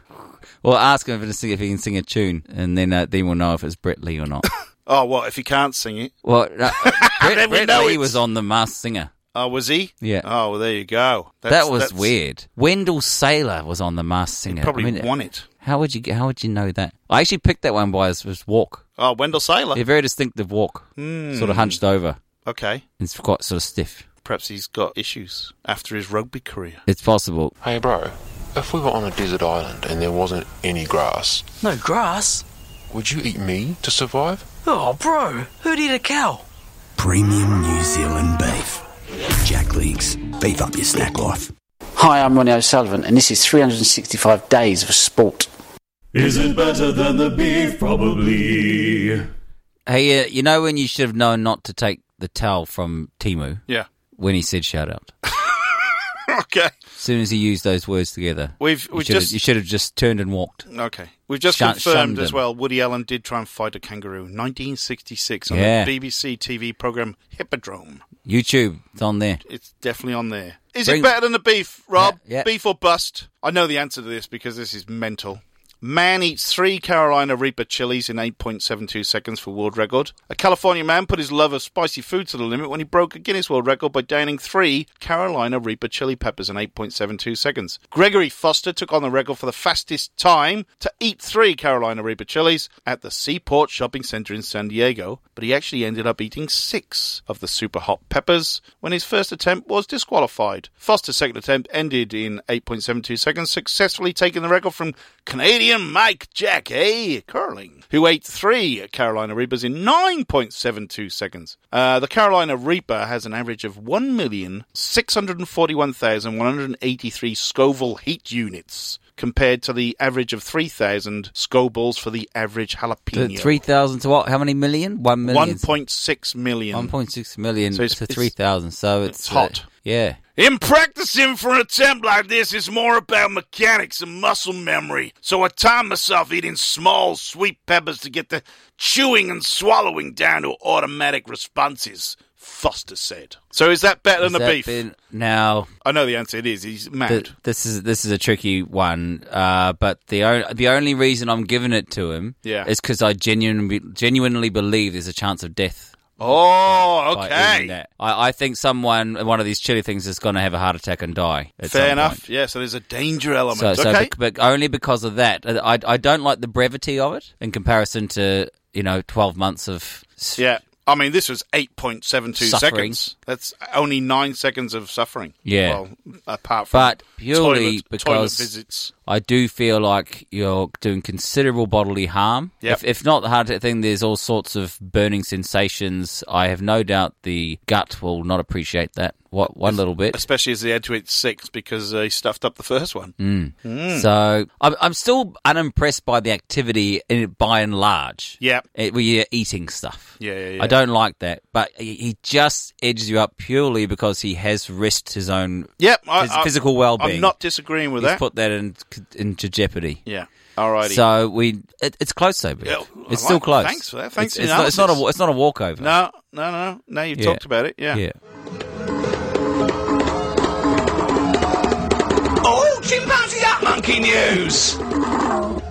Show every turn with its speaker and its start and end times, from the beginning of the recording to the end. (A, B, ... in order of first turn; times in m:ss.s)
0:00.6-0:04.5 A
0:04.8-0:06.1 B
0:06.2-0:09.1 A
0:06.7-0:08.2 B
0:09.3-0:12.1 B
0:11.5-0:15.1 A
0:14.5-0:15.4 B
0:15.6-0:18.8 A
0:19.0-0:19.8 B
0:19.7-0:22.2 A
0:21.0-0:21.8 B
0:22.4-0:22.8 B
0:23.0-0:24.0 A
0:24.2-0:26.8 B
0:26.9-0:27.5 A
0:27.6-0:31.4 C
0:31.6-0:32.4 D
0:32.9-0:34.4 C
0:34.6-0:36.4 D
0:37.0-0:38.8 E
0:39.5-0:41.3 E
0:42.0-0:45.5 F
0:46.1-0:49.3 G
0:49.9-0:53.6 A
0:54.2-0:55.1 A
0:55.4-0:56.8 B
0:57.0-1:00.7 A
0:58.6-0:59.4 B
1:00.7-1:08.0 B
1:01.5-1:02.4 A
1:05.5-1:05.9 A
1:08.2-1:09.4 A
1:09.4-2:03.6 B
1:10.8-1:11.1 A
1:12.0-1:12.5 A
2:03.1-2:05.6 A
2:05.2-2:06.9 B
2:06.7-2:10.2 A
2:07.7-2:08.3 B
2:09.0-2:09.6 B
2:10.4-2:24.8 B
2:24.2-2:25.7 A
2:25.8-2:27.3 B
2:27.1-2:42.2 A
2:32.4-2:32.7 B
2:36.2-2:37.7 B
2:41.6-2:44.1 B
2:43.5-2:50.4 A
2:50.4-2:58.9 B
2:52.4-2:53.0 A
2:55.4-2:55.8 A
2:56.7-2:58.5 A
2:59.1-3:10.2 A
3:09.6-3:14.1 B
3:13.2-3:27.3 A
3:18.4-3:18.6 B
3:20.2-3:20.8 B
3:25.8-3:28.2 B
3:28.0-3:30.0 A
3:30.0-3:31.0 B
3:30.8-3:35.9 A
3:32.6-3:35.0 B
3:35.8-3:38.0 B
3:37.2-3:38.1 A
3:43.3-3:44.7 B